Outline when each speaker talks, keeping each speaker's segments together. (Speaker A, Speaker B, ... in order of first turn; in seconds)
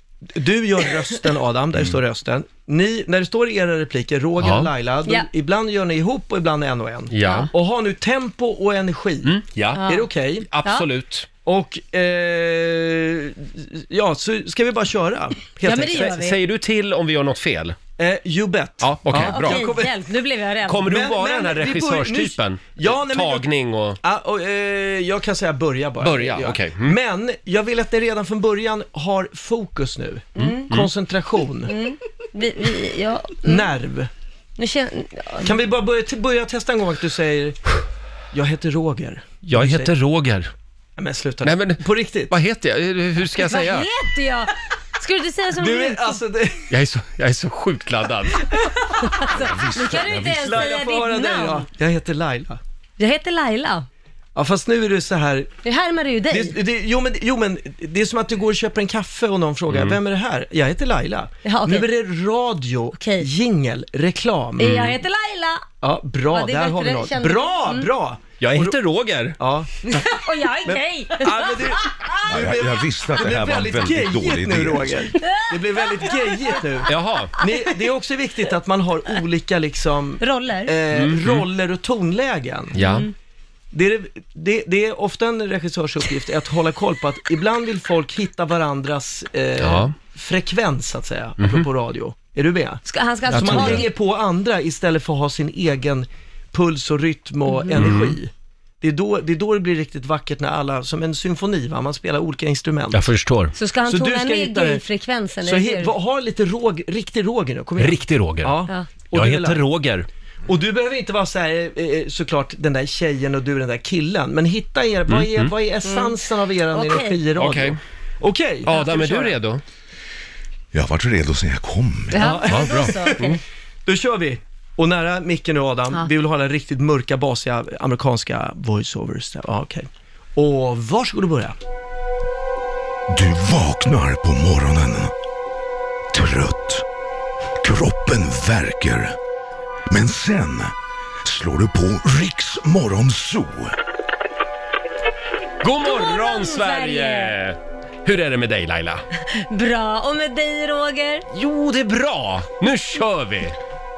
Speaker A: 0.3-10.5, 11.4-16.2, 18.0-20.0, 20.8-31.7, 33.4-34.1, 35.4-37.7, 38.3-39.9, 41.0-42.4, 45.5-46.7, 50.2-52.6, 54.3-55.6, 56.3-64.7, 65.8-68.8, 69.4-82.8, 83.7-103.0, 103.8-104.8, 105.4-109.6, 110.5-119.3, 122.1-131.6
Speaker B: 4.4-4.7, 7.1-7.5, 9.2-9.8, 10.4-11.3, 15.9-17.8, 18.8-19.7, 20.6-24.0, 26.0-27.0, 30.4-30.9, 39.4-40.5, 41.4-43.9, 46.7-48.4, 59.7-60.0, 64.6-65.0, 68.4-69.4, 76.9-77.3, 80.9-81.4, 82.7-83.1, 89.6-89.9, 91.4-91.7, 93.3-93.8, 97.8-98.2, 102.9-103.5, 107.8-108.6, 109.1-110.1, 115.1-115.5, 117.3-117.8, 118.6-119.6, 122.4-123.4, 145.6-149.0, 151.3-153.6
Speaker C: 9.7-10.1, 15.6-16.4, 19.1-20.9, 30.4-30.7, 31.6-33.7, 34.6-35.6, 43.4-46.2, 48.4-51.7, 53.0-53.9, 55.6-56.5, 61.4-61.9, 62.9-63.3, 64.6-65.6, 66.3-67.9, 69.8-72.2, 75.2-76.6, 80.2-80.8, 82.8-83.1, 92.8-93.9, 97.5-98.0, 103.5-105.9, 115.8-116.2, 116.7-117.2, 122.1-123.4, 145.8-147.4, 149.3-151.2
Speaker D: 49.2-50.7, 72.3-75.1, 120.7-122.2, 133.1-135.1, 136.1-136.8, 137.6-139.2, 139.9-143.8